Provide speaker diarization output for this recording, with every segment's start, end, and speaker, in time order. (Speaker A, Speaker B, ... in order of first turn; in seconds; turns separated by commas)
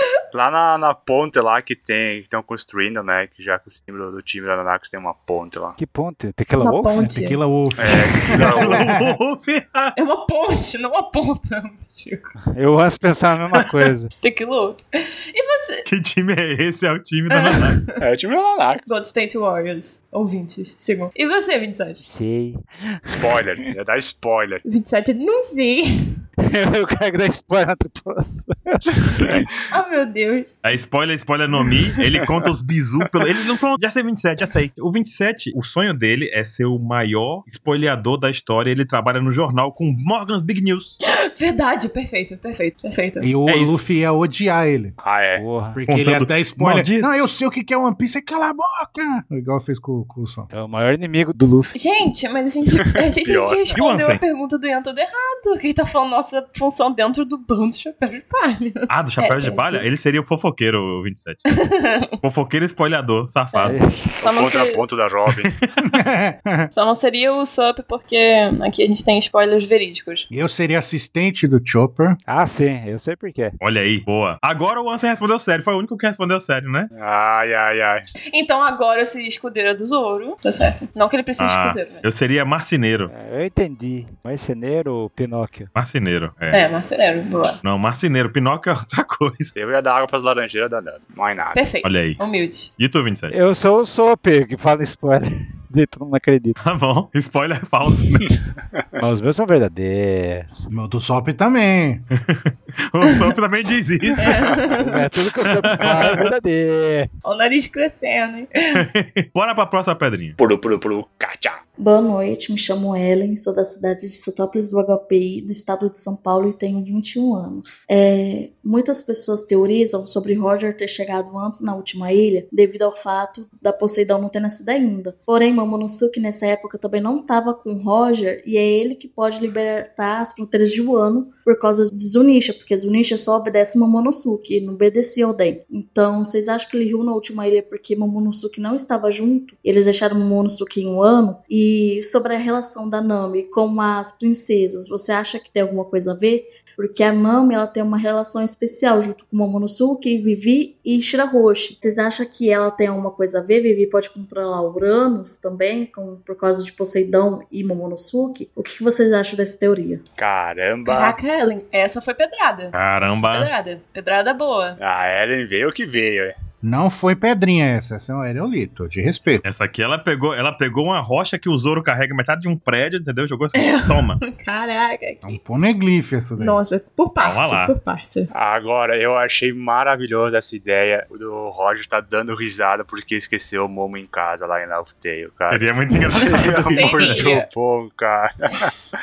Speaker A: 0.3-5.8, Speaker B: 5.8-6.9, Speaker C: 6.6-7.4, Speaker D: 7.0-9.2, Speaker A: 7.8-8.8, Speaker E: 8.3-9.9, Speaker C: 9.9-12.3, Speaker B: 12.5-14.1, Speaker C: 14.2-15.8, Speaker E: 15.8-17.8, Speaker C: 17.3-17.9, Speaker A: 18.0-18.8, Speaker C: 18.9-22.0, Speaker B: 22.0-23.4, Speaker A: 23.1-24.6, Speaker C: 24.6-25.9, Speaker B: 26.5-29.4, Speaker C: 29.7-30.6, Speaker E: 30.6-41.0, Speaker C: 41.0-43.3, Speaker D: 43.2-44.9, Speaker E: 43.5-44.0, Speaker A: 45.0-45.4, Speaker B: 45.4-45.8, Speaker D: 45.7-50.5, Speaker E: 45.9-47.1, Speaker B: 50.5-51.7, Speaker C: 51.7-59.9, Speaker A: 53.2-53.7, Speaker E: 53.7-54.2, Speaker E: 58.9-61.4, Speaker C: 61.5-62.1, Speaker E: 62.2-63.8, Speaker C: 63.5-64.8, Speaker B: 63.6-64.1, Speaker A: 64.2-65.5, Speaker D: 65.8-66.7, Speaker C: 66.7-70.3, Speaker D: 70.3-72.2, Speaker B: 72.3-73.5, Speaker E: 73.6-76.9, Speaker A: 76.9-78.0, Speaker C: 78.3-82.0, Speaker E: 81.4-83.1, Speaker B: 83.1-85.7, Speaker E: 85.7-86.6, Speaker C: 86.5-87.6, Speaker E: 87.6-89.5, Speaker A: 89.5-91.6, Speaker C: 91.5-92.7, Speaker E: 91.8-92.2, Speaker E: 92.8-93.3, Speaker B: 93.3-96.6, Speaker E: 96.6-98.3, Speaker B: 99.0-100.7, Speaker D: 100.7-102.0, Speaker E: 102.2-104.7, Speaker C: 104.1-105.0, Speaker B: 104.8-107.1, Speaker E: 105.7-106.2, Speaker C: 107.2-108.5, Speaker E: 108.7-110.4, Speaker A: 110.4-111.6, Speaker F: 111.8-160.0, Speaker A: 160.2-161.2, Speaker C: 160.8-164.8, Speaker E: 162.7-163.5, Speaker A: 164.8-166.3, Speaker D: 166.6-169.4, Speaker E: 169.4-174.2, Speaker C: 173.5-175.4, Speaker D: 175.2-176.6, Speaker C: 176.4-178.3, Speaker E: 177.2-177.7, Speaker A: 178.3-188.7, Speaker E: 185.5-187.3, Speaker C: 186.1-187.5